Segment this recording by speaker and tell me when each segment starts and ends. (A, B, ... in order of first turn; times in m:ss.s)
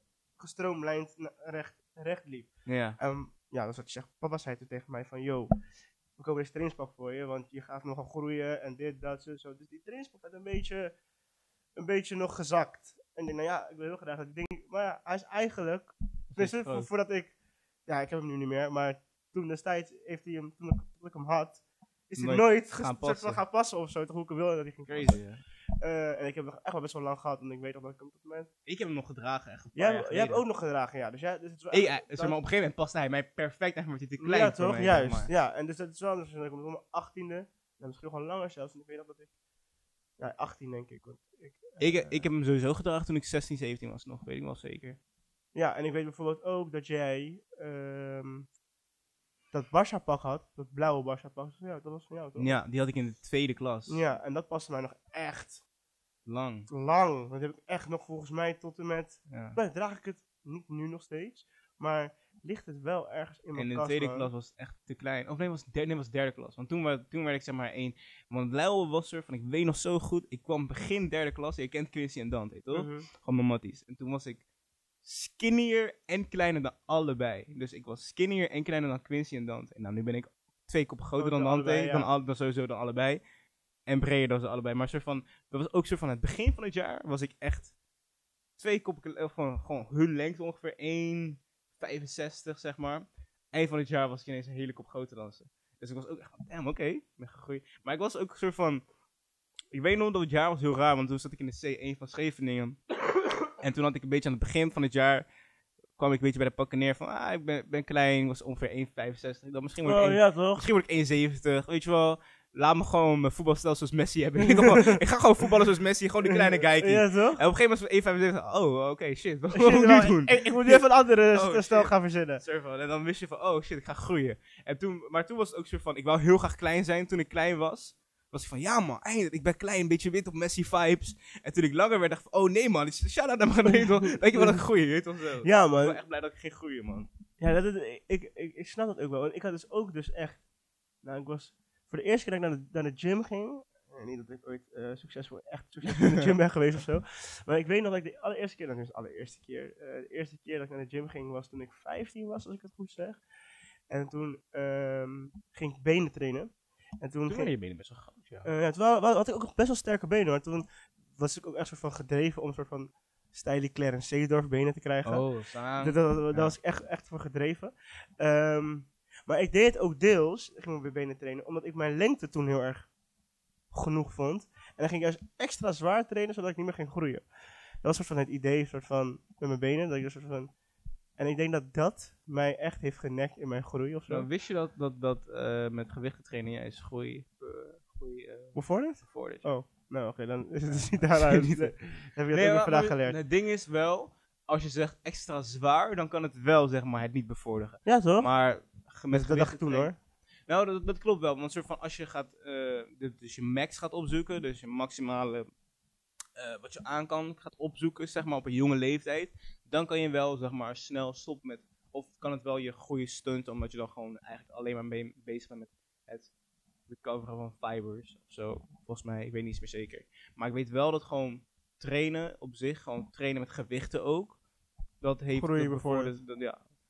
0:00.4-0:05.5 A
0:02.6-0:03.0 B
0:06.2-0:11.0 A
0:11.8-0:17.3 A
0:16.3-0:16.9 B
0:17.8-0:25.2 A
0:22.2-0:23.4 B
0:24.9-0:25.4 B
0:25.8-0:28.5 A
0:28.6-0:30.4 B
0:29.7-0:32.4 A
0:31.7-0:35.3 B
0:34.2-0:39.3 A
0:40.2-0:42.3 A
0:41.8-0:45.0 B
0:45.5-0:48.5 A
0:49.5-0:52.6 A
0:52.4-0:54.0 B
0:53.9-0:55.6 A
0:56.2-0:56.7 B
0:56.7-1:04.3 A
0:59.3-0:59.6 B
1:03.5-1:14.4 B
1:12.7-1:13.1 A
1:15.0-1:23.2 B
1:21.2-1:22.1 A
1:23.8-1:27.7 B
1:28.6-1:38.8 B
1:39.7-1:42.8 B
1:43.6-1:45.2 B
1:46.0-2:17.1 B
1:49.8-1:50.6 A
1:54.4-1:55.0 A
1:56.2-1:57.4 A
1:59.5-2:02.4 A
2:13.7-2:14.6 A
2:15.4-2:16.0 A
2:17.4-2:20.4 A
2:21.0-2:33.2 A
2:33.9-2:37.5 A
2:37.3-2:38.5 B
2:38.4-2:52.9 A
2:45.0-2:46.5 B
2:53.7-2:57.3 A
2:57.8-3:00.5 A
3:01.2-3:04.3 A
3:04.1-3:09.5 B
3:08.5-3:13.2 A
3:10.6-3:19.9 B
3:17.8-3:18.3 A
3:19.1-3:20.0 A
3:20.5-3:25.5 B
3:26.4-3:36.3 B
3:36.9-3:44.4 B
3:45.0-3:46.6 B
3:45.3-3:46.1 A